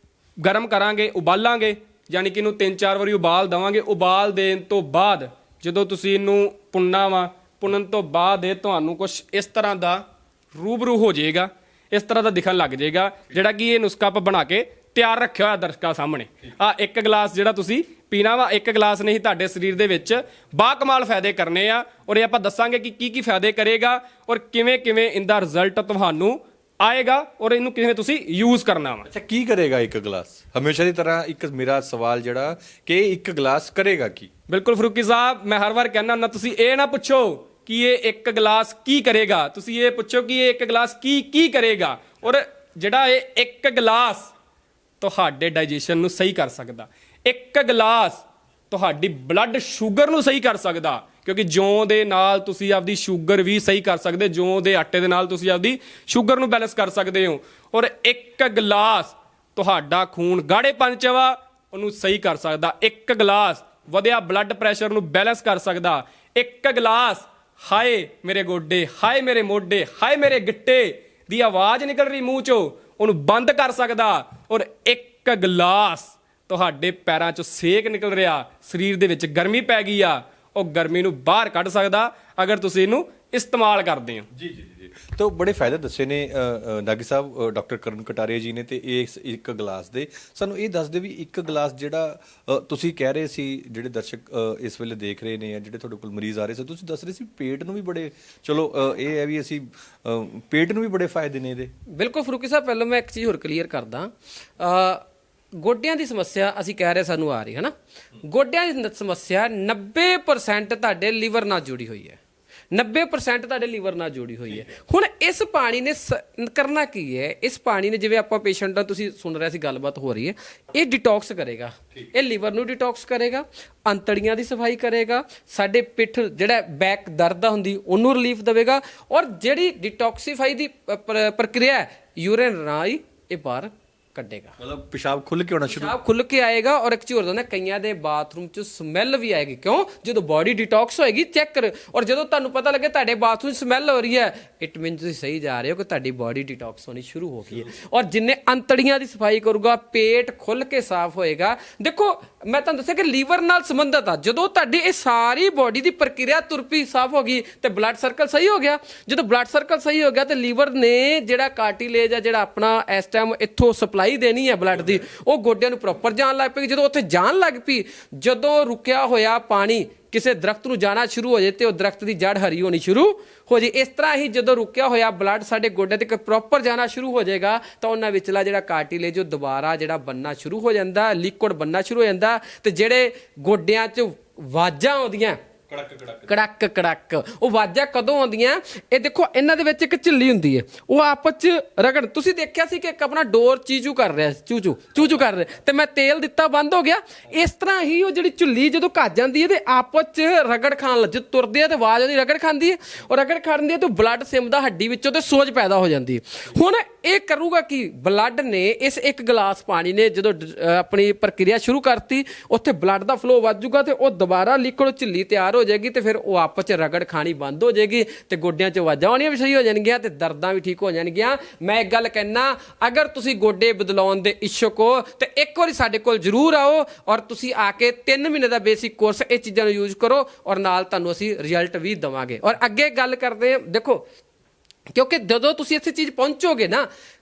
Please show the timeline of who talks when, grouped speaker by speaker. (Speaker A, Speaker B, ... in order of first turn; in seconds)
Speaker A: 0.4-29.1, 34.5-44.3, 45.0-84.3
Speaker B: 29.1-34.3, 84.3-101.7, 134.6-136.0, 185.7-186.3
Speaker C: 102.0-105.0, 105.5-107.7, 108.2-112.2, 112.7-134.6, 135.7-185.4, 186.3-234.0, 234.9-236.9